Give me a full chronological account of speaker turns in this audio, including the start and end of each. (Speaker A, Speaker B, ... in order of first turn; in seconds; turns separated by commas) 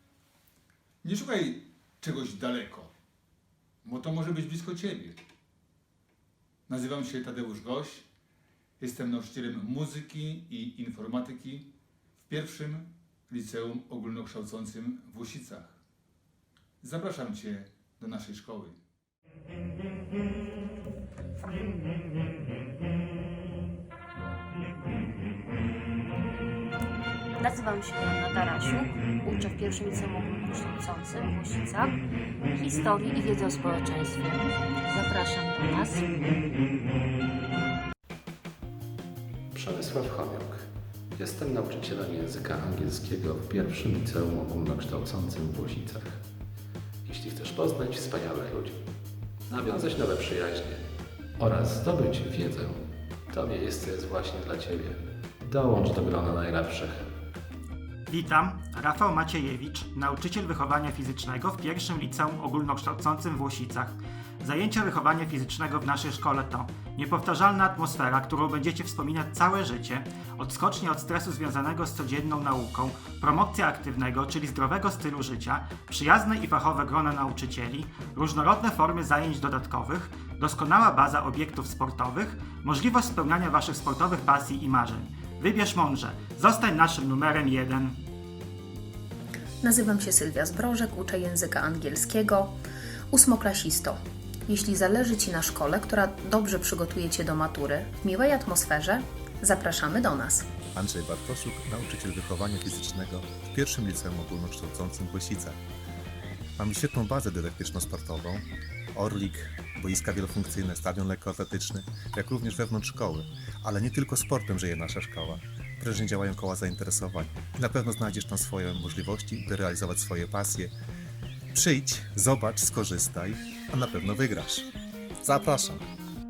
Speaker A: 1.0-2.9, Speaker A: 3.8-5.2, Speaker A: 6.7-8.1, Speaker A: 8.8-11.7, Speaker A: 12.3-15.8, Speaker A: 16.8-18.8, Speaker B: 27.4-32.0, Speaker B: 32.6-36.4, Speaker C: 39.5-46.2, Speaker C: 47.1-48.8, Speaker C: 49.5-50.9, Speaker C: 51.4-57.0, Speaker D: 58.1-88.0, Speaker E: 89.6-92.6, Speaker E: 93.1-100.5, Speaker F: 100.8-105.6, Speaker F: 106.6-120.7, Speaker F: 121.5-124.7, Speaker F: 125.2-125.8